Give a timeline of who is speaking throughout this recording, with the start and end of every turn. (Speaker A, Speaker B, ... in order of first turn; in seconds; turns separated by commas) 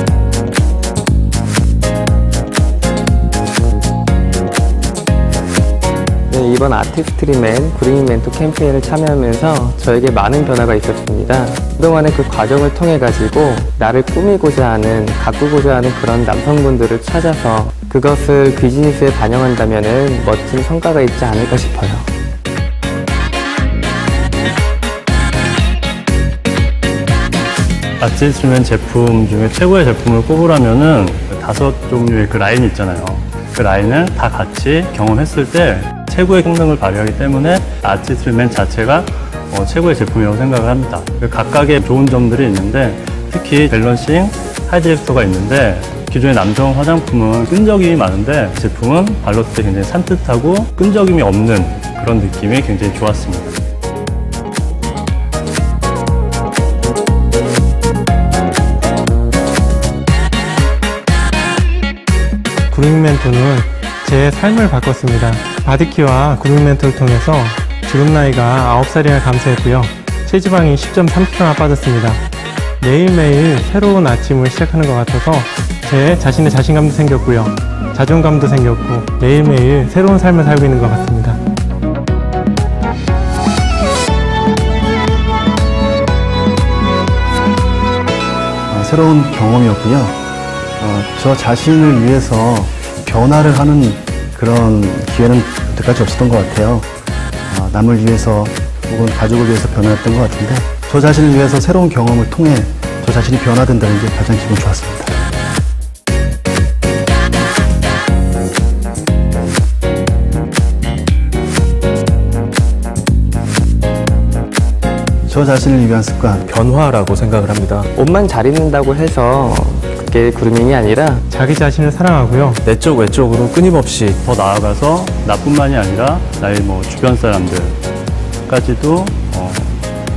Speaker A: 6.3-22.1, Speaker B: 28.0-53.6, Speaker C: 62.7-72.2, Speaker C: 72.8-81.4, Speaker D: 88.7-90.2, Speaker D: 90.8-96.9, Speaker D: 97.5-105.2, Speaker D: 115.3-116.5, Speaker E: 116.5-117.9, Speaker A: 117.9-121.2, Speaker C: 121.3-122.6, Speaker E: 122.7-124.2, Speaker B: 124.2-127.8, Speaker B: 128.5-129.9